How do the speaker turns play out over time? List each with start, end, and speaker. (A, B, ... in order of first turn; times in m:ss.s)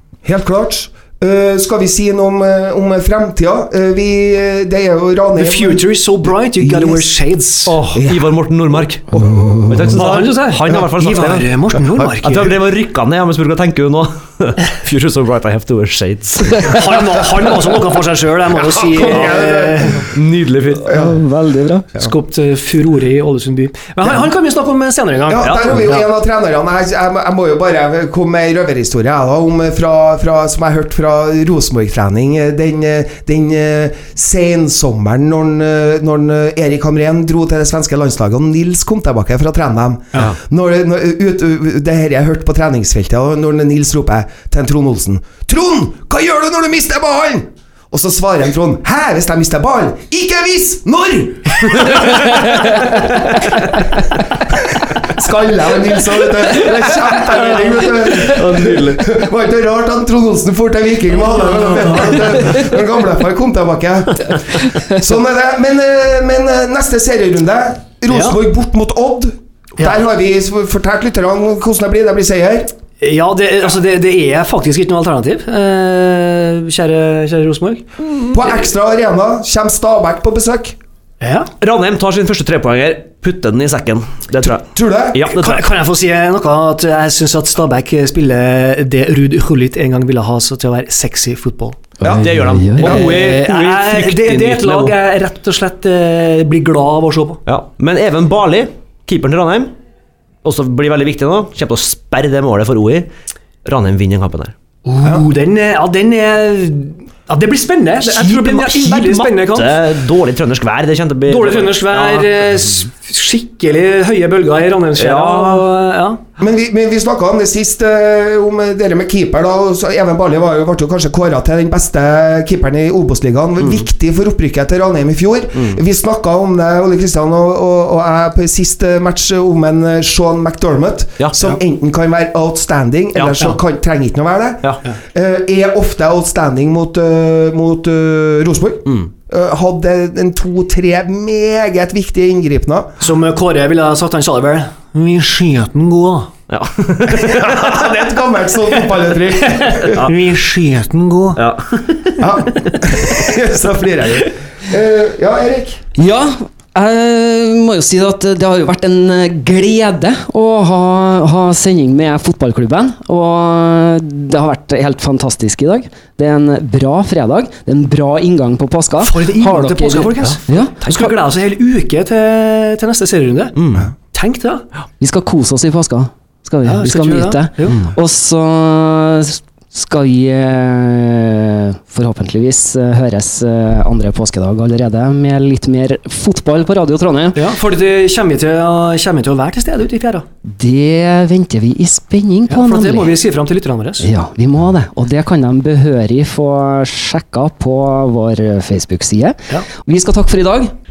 0:00.2-0:05.8 A
0:05.4-0:07.8 B
0:06.6-0:07.1 A
0:07.7-0:09.1 C
0:07.9-0:08.3 A
0:09.1-0:10.0 A
0:09.3-0:09.7 D
0:09.7-0:11.5 C
0:10.0-0:12.5 B
0:12.2-0:17.5 C
0:16.6-0:20.1 B
0:18.9-0:20.1 A
0:20.0-0:21.0 C
0:20.8-0:21.2 A
0:20.9-0:21.9 D
0:22.0-0:26.1 B
0:25.3-0:52.8 A
0:54.5-1:12.7 A
0:58.0-0:59.0 C
1:01.8-1:02.5 C
1:08.1-1:08.4 B
1:13.0-1:18.6 B
1:18.3-1:20.8 A
1:21.2-1:21.5 B
1:21.6-1:25.7 C
1:24.6-1:25.2 A
1:25.3-1:31.8 B
1:32.0-1:33.0 D
1:32.1-1:35.0 C
1:32.8-1:37.4 B
1:37.4-1:39.7 C
1:40.4-1:43.1 C
1:43.6-1:44.5 C
1:44.8-1:49.8 B
1:48.0-1:52.3 C
1:51.3-1:56.2 B
1:55.0-1:55.7 C
1:56.4-2:23.0 A
2:11.2-2:11.6 C
2:13.2-2:13.5 C
2:23.0-2:26.3 B
2:26.5-2:27.6 C
2:27.1-2:30.0 A
2:28.9-2:31.4 B
2:31.4-2:32.3 C
2:32.2-2:35.8 A
2:36.0-2:51.1 D
2:49.0-2:53.6 B
2:53.6-2:53.9 C
2:54.1-2:54.6 B
2:55.0-3:07.4 D
2:56.6-2:57.8 B
3:07.4-3:10.3 B
3:10.4-3:13.2 D
3:12.5-3:14.1 B
3:14.0-3:20.7 D